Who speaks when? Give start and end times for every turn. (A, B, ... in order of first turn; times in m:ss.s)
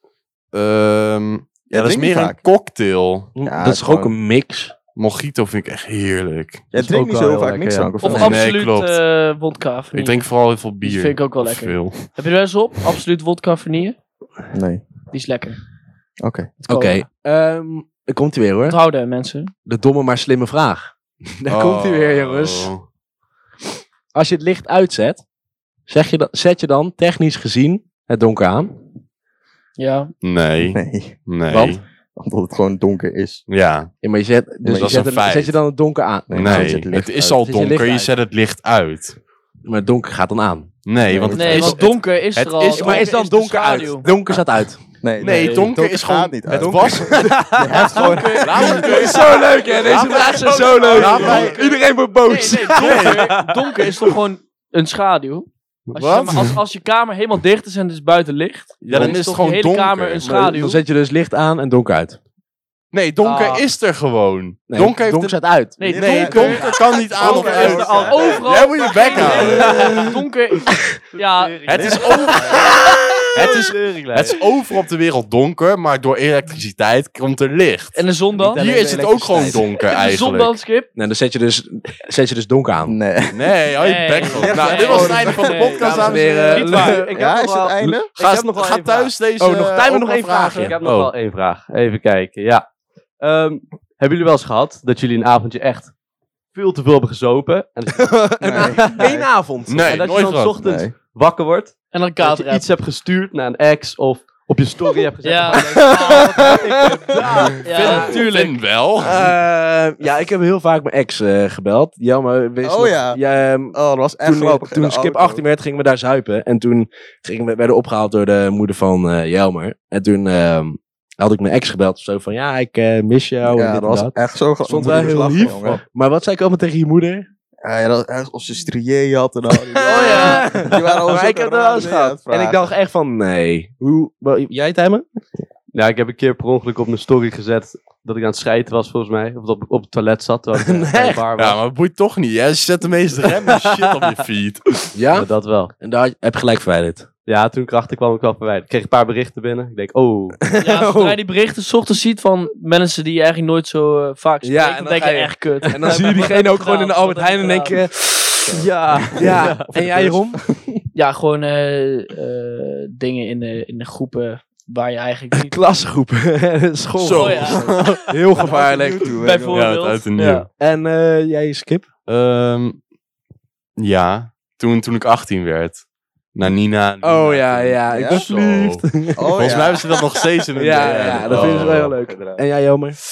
0:00.5-0:03.3 A
0:01.7-0:02.4 B
0:03.4-0:04.7 C
0:03.4-0:04.1 B
0:05.0-0:06.7 A
0:06.7-0:08.4 B
0:06.8-0:08.0 D
0:08.0-0:10.3 E
0:08.0-0:08.3 C
0:08.1-0:09.0 A
0:09.9-0:12.1 A
0:10.8-0:14.0 E
0:14.5-0:14.8 B
0:15.1-0:15.6 E
0:16.2-0:16.5 B
0:16.7-0:18.8 C
0:16.7-0:17.0 E
0:18.7-0:19.5 E
0:19.7-0:22.7 C
0:21.5-0:22.8 A
0:24.1-0:25.2 C
0:25.9-0:28.8 C
0:29.8-0:30.1 E
0:30.2-0:31.8 A
0:30.6-0:33.4 B
0:33.5-0:33.9 A
0:34.0-0:38.1 C
0:34.6-0:35.0 B
0:34.7-0:35.6 A
0:36.3-0:37.4 B
0:36.3-0:39.2 A
0:39.7-0:41.4 C
0:40.8-0:43.1 A
0:41.1-0:41.9 B
0:41.3-0:44.1 E
0:42.7-0:44.8 C
0:45.0-0:48.9 B
0:45.2-0:47.6 A
0:45.2-0:45.7 E
0:46.5-0:54.1 C
0:47.8-0:49.2 E
0:48.4-0:51.6 A
0:50.5-0:51.3 D
0:50.5-1:00.8 E
0:52.8-0:53.2 A
0:52.8-0:53.5 D
0:55.9-0:56.6 A
0:58.8-0:59.2 C
0:58.9-1:00.3 A
1:00.2-1:02.2 C
1:02.9-1:05.4 A
1:03.2-1:03.6 E
1:04.7-1:05.8 C
1:05.8-1:12.8 E
1:05.8-1:08.7 B
1:05.9-1:10.1 A
1:07.5-1:08.3 D
1:09.1-1:10.1 D
1:11.2-1:12.6 D
1:11.7-1:20.6 A
1:11.7-1:12.5 B
1:13.4-1:14.4 D
1:18.0-1:18.6 E
1:18.4-1:19.7 C
1:19.8-1:20.9 E
1:21.0-1:23.0 C
1:22.9-1:23.6 B
1:23.3-1:26.7 A
1:23.8-1:27.1 E
1:24.3-1:25.8 B
1:24.5-1:25.1 C
1:25.8-1:27.1 C
1:25.8-1:29.1 D
1:27.1-1:28.1 B
1:28.2-1:31.1 A
1:29.4-1:30.8 C
1:30.6-1:32.6 D
1:33.2-1:35.9 D
1:36.5-1:39.0 D
1:38.0-1:40.1 C
1:38.4-1:39.3 B
1:39.7-1:40.6 A
1:39.8-1:48.0 D
1:40.6-1:40.9 B
1:41.9-1:42.6 E
1:45.2-1:46.6 E
1:45.5-1:48.2 C
1:47.6-1:48.6 E
1:47.8-1:49.3 A
1:49.0-2:07.3 C
1:52.6-1:55.4 B
2:03.5-2:05.8 B
2:07.6-2:12.7 B
2:09.8-2:10.7 E
2:09.9-2:15.1 C
2:15.7-2:21.6 D
2:20.6-2:21.2 C
2:21.4-2:24.9 A
2:25.0-2:27.1 C
2:25.1-2:25.7 D
2:27.3-2:30.4 D
2:30.5-2:31.2 C
2:30.6-2:37.8 E
2:34.4-2:40.8 C
2:35.7-2:36.0 D
2:38.5-2:40.2 D
2:41.0-2:45.6 E
2:45.3-2:49.1 C
2:47.0-2:48.2 A
2:47.1-2:47.9 E
2:48.4-2:49.7 B
2:49.1-2:50.4 E
2:49.5-2:50.5 A
2:50.6-2:51.9 C
2:52.1-2:52.8 A
2:53.8-3:01.9 A
2:57.0-2:59.5 C
2:57.9-2:58.2 B
2:59.2-3:00.2 B
3:00.6-3:03.0 C
3:00.8-3:02.4 B